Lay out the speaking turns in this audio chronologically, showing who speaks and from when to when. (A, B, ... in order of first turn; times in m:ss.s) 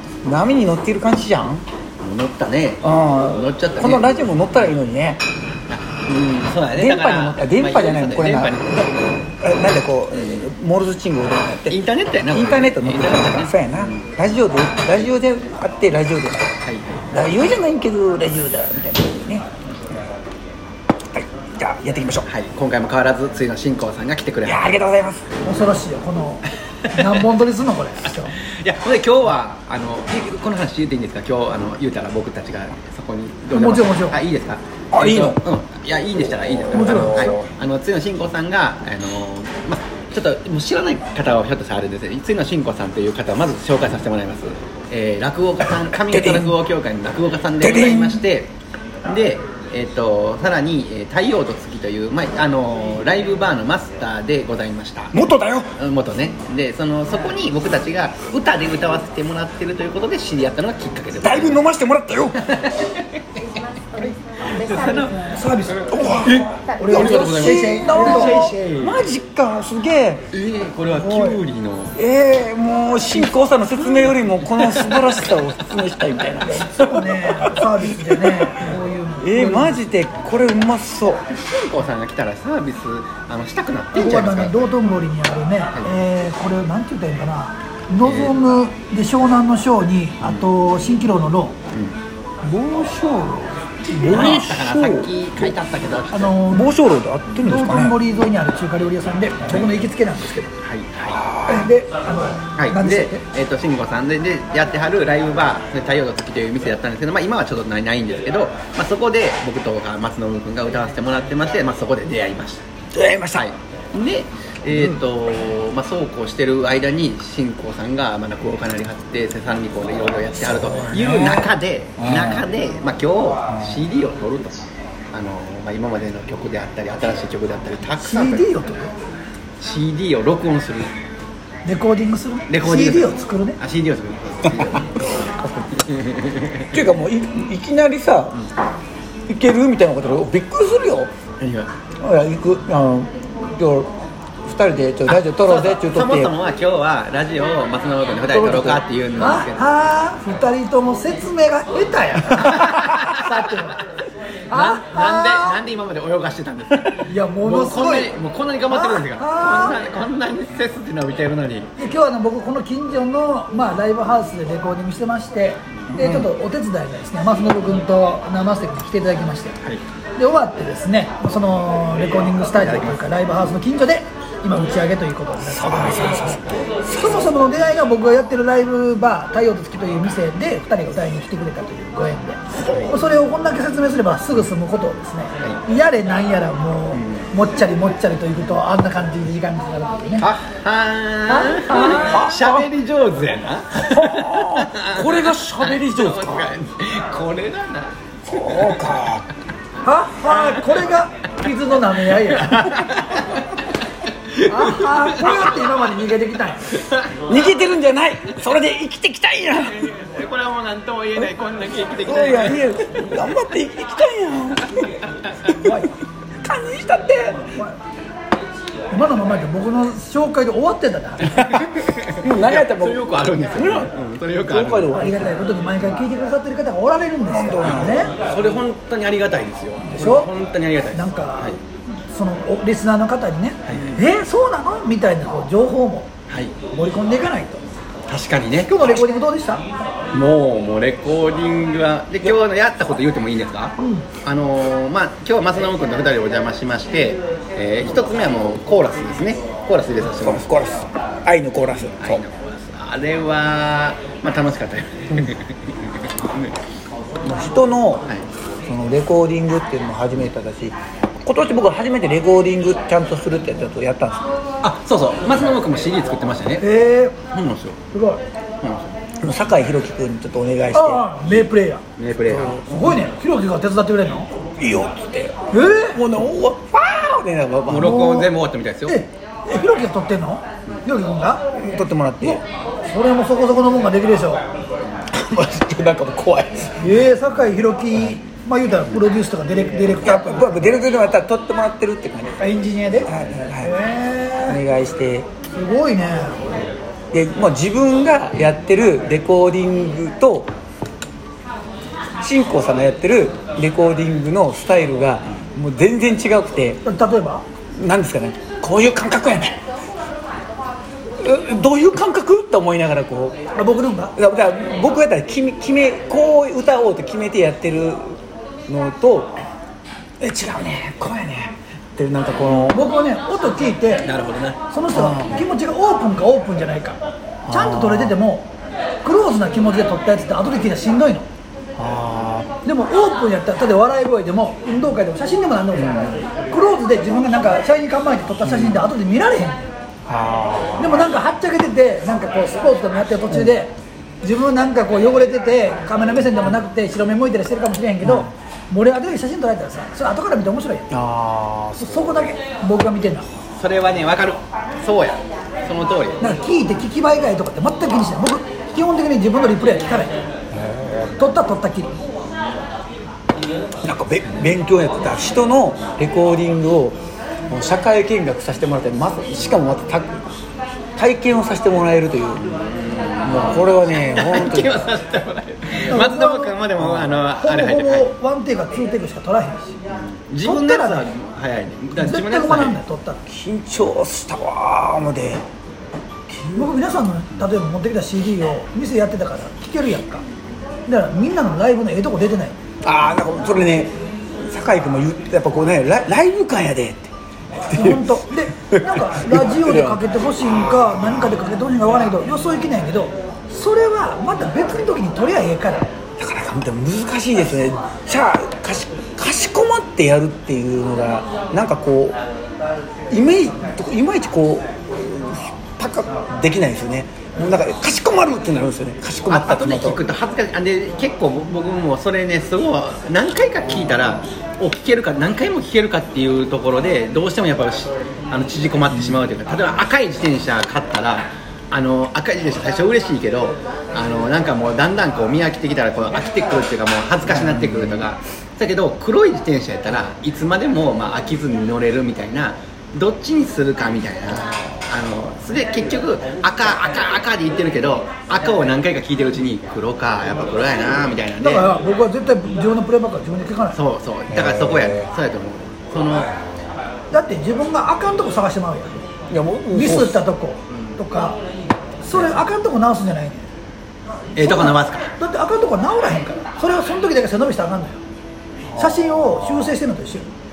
0:00.2-0:01.6 A
0:02.0-0:04.7 B
0:02.8-0:05.2 A
0:05.7-0:09.2 B
0:06.7-0:08.6 A
0:09.4-0:16.5 A
0:10.1-0:10.5 B
0:11.7-0:14.2 B
0:17.1-0:19.5 A
0:21.1-0:22.3 A
0:22.3-0:24.8 B
0:24.4-0:25.2 A
0:25.4-0:28.4 C
0:28.4-0:48.5 B
0:33.5-0:34.2 C
0:34.9-0:35.4 A
0:36.7-0:37.4 C
0:36.8-0:37.4 A
0:46.1-0:46.5 A
0:47.6-0:48.2 A
0:49.0-0:55.2 B
0:55.1-0:55.7 A
0:55.8-1:01.6 B
1:01.2-1:02.4 A
1:02.4-1:03.4 B
1:03.9-1:09.0 B
1:05.0-1:08.5 C
1:05.9-1:10.3 A
1:10.3-1:12.0 B
1:10.9-1:11.4 C
1:12.0-1:18.6 A
1:13.8-1:15.2 B
1:16.4-1:19.8 C
1:19.2-1:21.2 A
1:21.3-1:24.7 B
1:24.0-1:31.5 C
1:28.0-1:28.4 B
1:32.4-1:35.1 A
1:34.0-1:36.4 B
1:36.1-1:36.7 C
1:36.5-1:38.0 A
1:37.4-1:40.5 C
1:39.5-1:39.8 B
1:40.6-1:41.2 B
1:41.1-1:41.7 A
1:41.5-1:43.2 C
1:42.6-1:52.6 B
1:52.9-1:53.4 A
1:53.3-2:08.5 B
1:54.7-1:55.0 A
2:00.4-2:02.4 A
2:03.5-2:03.8 A
2:08.0-2:08.9 C
2:09.6-2:10.9 B
2:11.6-2:13.6 C
2:12.5-2:15.0 B
2:15.7-2:16.7 B
2:16.7-2:18.4 A
2:19.3-2:21.1 A
2:21.4-2:21.7 B
2:22.0-2:23.9 A
2:24.4-2:26.3 A
2:25.1-2:29.6 B
2:28.3-2:28.8 A
2:29.2-2:33.8 C
2:32.4-2:33.3 B
2:34.5-2:35.6 C
2:34.5-2:41.7 B
2:37.1-2:38.1 C
2:38.7-2:39.8 C
2:41.8-2:49.6 C
2:45.9-2:46.3 A
2:50.2-3:10.3 C
2:52.6-2:53.5 B
2:55.4-2:57.3 A
3:02.6-3:03.0 B
3:06.9-3:07.3 B
3:10.2-3:18.8 B
3:11.3-3:12.3 C
3:11.8-3:12.7 A
3:13.7-3:16.5 A
3:18.2-3:19.2 A
3:19.8-3:22.8 C
3:20.2-3:21.0 B
3:22.3-3:23.6 B
3:24.3-3:25.5 B
3:24.5-3:26.7 C
3:26.8-3:27.1 B
3:27.3-3:29.9 A
3:29.8-3:33.2 B
3:32.0-3:34.9 A
3:35.4-3:35.9 A
3:35.6-3:35.9 C
3:36.4-3:37.5 A
3:38.9-3:41.4 C
3:41.4-3:41.7 A
3:41.4-3:45.0 B
3:42.2-3:43.9 A
3:44.4-3:45.3 A
3:44.9-3:48.1 C
3:47.3-3:48.1 A
3:47.6-3:51.6 B
3:49.8-3:50.3 C
3:50.9-3:51.5 C
3:52.1-3:56.1 C
3:53.7-3:54.0 B
3:56.7-3:57.6 C
3:58.1-3:59.0 B
3:58.7-3:59.7 C
4:00.1-4:10.5 B
4:03.8-4:04.1 C
4:10.2-4:12.2 A
4:12.0-4:16.5 B
4:17.2-4:18.1 A
4:18.7-4:24.3 A
4:24.6-4:26.6 B
4:26.6-4:27.2 C
4:27.3-4:27.8 B
4:27.9-4:28.2 C
4:28.6-4:28.9 B
4:29.2-4:31.0 A
4:30.7-4:31.8 C
4:32.0-4:33.0 B
4:32.3-4:33.0 A
4:32.7-4:34.3 C
4:34.6-4:38.3 A
4:35.5-4:36.0 C
4:37.7-4:39.0 B
4:38.9-4:41.4 C
4:41.6-4:42.4 A
4:42.2-4:44.4 C
4:45.1-4:46.9 A
4:46.8-4:50.6 C
4:50.0-4:52.4 A
4:52.4-4:54.6 C
4:53.0-4:53.8 A
4:54.5-4:55.3 A
4:55.6-4:56.4 C
4:57.1-5:00.5 A
5:02.2-5:06.8 A
5:06.8-5:07.4 C
5:07.8-5:09.6 A
5:11.2-5:13.4 A
5:13.6-5:14.2 C
5:14.2-5:19.4 A
5:20.2-5:22.8 A
5:22.4-5:22.7 B
5:22.7-5:24.0 C
5:24.0-5:24.6 B
5:24.7-5:27.0 C
5:24.9-5:25.4 A
5:27.4-5:28.2 A
5:27.5-5:28.5 C
5:29.0-5:31.3 C
5:31.8-5:32.5 A
5:32.6-5:39.6 C
5:35.7-5:36.3 A
5:38.4-5:38.8 A
5:40.1-5:41.1 A
5:40.8-5:50.9 C
5:43.3-5:43.6 A
5:48.0-5:48.3 A
5:50.9-5:52.2 A
5:51.8-5:53.3 C
5:53.5-5:56.2 B
5:56.2-6:00.1 C
6:00.6-6:01.2 A
6:01.2-6:02.0 C
6:03.8-6:07.0 A
6:07.5-6:10.2 A
6:11.0-6:12.5 A
6:12.4-6:18.1 B
6:13.2-6:14.8 A
6:15.9-6:16.6 C
6:16.8-6:17.2 A
6:17.4-6:19.8 C
6:19.9-6:22.8 B
6:20.4-6:21.1 C
6:22.0-6:23.2 C
6:23.3-6:25.4 A
6:26.4-6:26.7 A
6:26.6-6:30.2 C
6:30.9-6:32.6 C
6:32.8-6:37.1 A
6:37.7-6:40.0 A
6:37.7-6:45.9 C
6:46.2-6:52.2 A
6:53.1-7:00.0 A
6:59.3-7:31.7 B
7:17.3-7:18.0 A
7:31.4-7:33.8 C
7:33.7-7:36.3 B
7:34.3-7:35.1 A
7:37.1-7:39.0 C
7:39.3-7:40.2 A
7:39.7-7:41.4 C
7:40.7-7:41.0 B
7:42.0-7:43.4 C
7:44.4-7:45.1 B
7:44.4-7:48.0 C
7:48.7-7:49.7 A
7:48.8-7:50.3 C